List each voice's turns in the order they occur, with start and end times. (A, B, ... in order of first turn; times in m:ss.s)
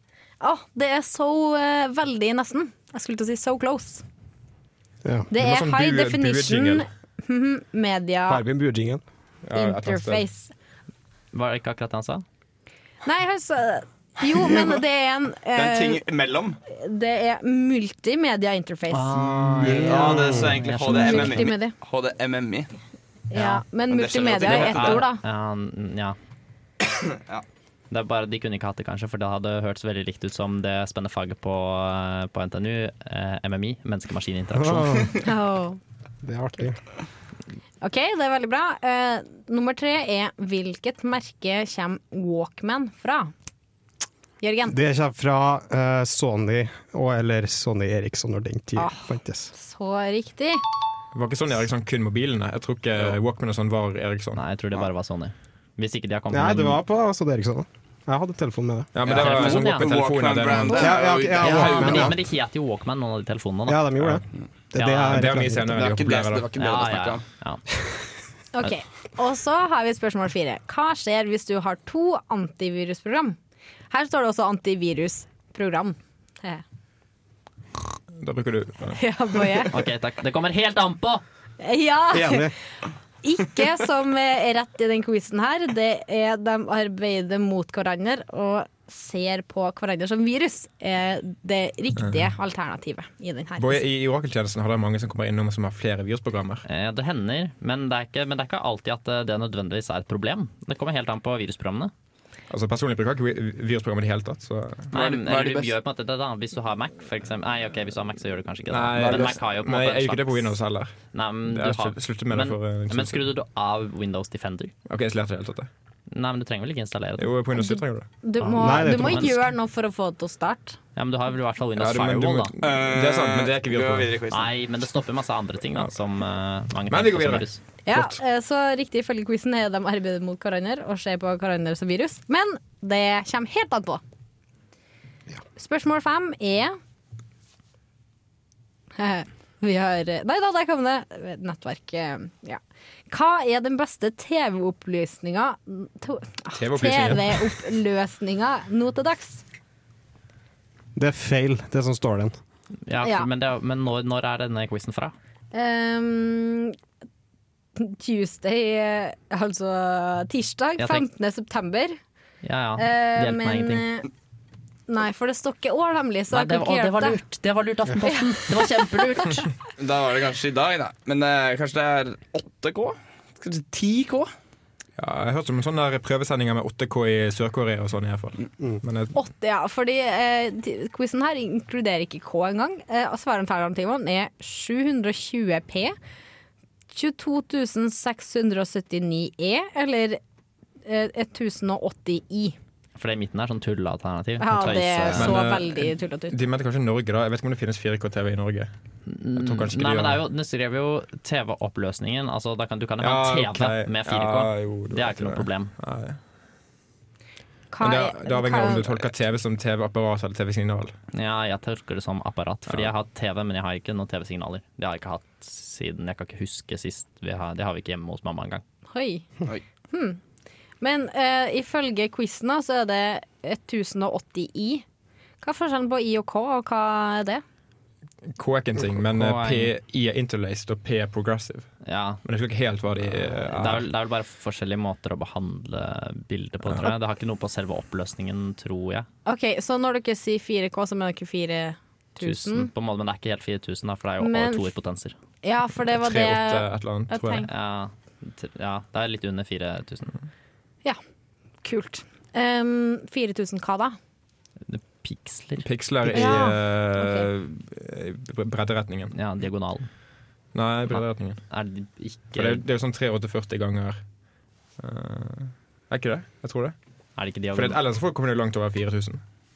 0:00.4-0:04.0 A
0:05.0-0:05.3 B
0:05.3-0:08.4 A
0:05.3-0:06.9 C
0:08.3-0:09.0 B
0:09.4-0:10.3 C
0:09.6-0:10.5 A
0:11.3-0:12.2 D
0:13.0-0:16.0 A
0:14.4-0:14.8 E
0:15.5-0:16.6 E
0:16.7-0:19.1 A
0:18.9-0:21.5 D
0:19.2-0:20.5 B
0:19.8-0:22.7 E
0:20.8-0:21.7 A
0:23.3-0:25.2 A
0:23.3-0:23.6 D
0:23.9-0:25.1 E
0:24.4-0:26.2 D
0:27.9-0:35.1 D
0:34.6-0:35.2 B
0:35.2-0:35.8 A
0:36.2-0:36.8 B
0:37.8-0:43.3 A
0:44.4-0:44.8 A
0:44.7-0:49.5 B
0:48.8-0:50.6 A
0:51.1-0:54.4 C
0:54.4-0:56.8 D
0:56.3-0:58.9 B
0:58.9-1:00.9 C
0:59.0-1:02.2 E
0:59.1-0:59.9 D
1:00.8-1:02.2 B
1:01.4-1:04.0 D
1:03.7-1:05.9 B
1:04.8-1:05.3 D
1:05.1-1:06.5 C
1:05.8-1:07.2 E
1:06.6-1:07.6 D
1:08.5-1:13.4 A
1:13.9-1:16.6 A
1:18.2-1:19.0 C
1:19.0-1:19.7 A
1:19.7-1:21.2 D
1:21.6-1:22.5 A
1:22.1-1:22.5 B
1:23.2-1:33.8 A
1:32.0-1:32.3 C
1:33.6-1:36.6 C
1:36.7-1:41.9 D
1:42.5-1:44.9 C
1:44.9-1:45.7 E
1:44.9-1:50.5 D
1:48.7-1:53.2 C
1:51.1-1:54.7 D
1:54.9-1:55.7 C
1:56.1-1:57.3 D
1:57.2-1:58.1 C
1:57.6-2:00.8 A
1:58.4-1:59.4 D
1:58.6-1:59.4 B
2:01.0-2:02.5 D
2:01.8-2:04.1 C
2:02.6-2:04.5 E
2:04.3-2:07.6 D
2:06.9-2:08.2 C
2:07.9-2:14.0 A
2:15.6-2:16.8 A
2:19.0-2:29.4 A
2:26.6-2:27.6 C
2:31.0-2:32.4 B
2:32.9-2:35.2 D
2:33.0-2:33.3 A
2:35.5-2:36.8 A
2:37.8-2:42.0 A
2:40.8-2:41.0 D
2:42.4-2:43.9 D
2:42.8-2:44.1 A
2:44.9-2:47.2 A
2:46.3-2:49.5 D
2:48.1-2:48.4 A
2:49.0-2:49.3 A
2:49.8-2:54.3 E
2:55.0-2:59.2 C
2:59.1-3:06.0 A
3:06.9-3:10.2 A
3:10.9-3:12.6 A
3:13.0-3:15.4 D
3:14.4-3:16.4 A
3:15.1-3:18.7 C
3:19.1-3:25.7 D
3:19.3-3:20.2 C
3:23.0-3:26.2 C
3:27.7-3:29.1 A
3:27.8-3:30.9 C
3:31.1-3:38.6 D
3:32.7-3:32.9 C
3:38.9-3:39.3 A
3:39.9-3:40.2 A
3:40.8-3:44.8 A
3:45.4-3:47.4 A
3:48.3-3:51.7 C
3:49.1-3:49.7 D
3:51.8-3:52.2 D
3:52.2-3:53.9 C
3:53.1-3:59.1 D
3:56.7-3:56.9 C
3:59.3-4:02.7 A
4:02.2-4:05.2 D
4:04.2-4:04.7 A
4:05.4-4:07.5 A
4:05.9-4:07.5 C
4:07.5-4:10.2 D
4:11.6-4:14.0 A
4:14.7-4:15.7 D
4:15.6-4:19.2 C
4:16.1-4:17.3 A
4:19.1-4:19.9 D
4:20.5-4:21.4 C
4:20.9-4:22.6 D
4:22.4-4:24.0 C
4:24.8-4:26.8 C
4:27.2-4:27.8 D
4:27.5-4:29.2 C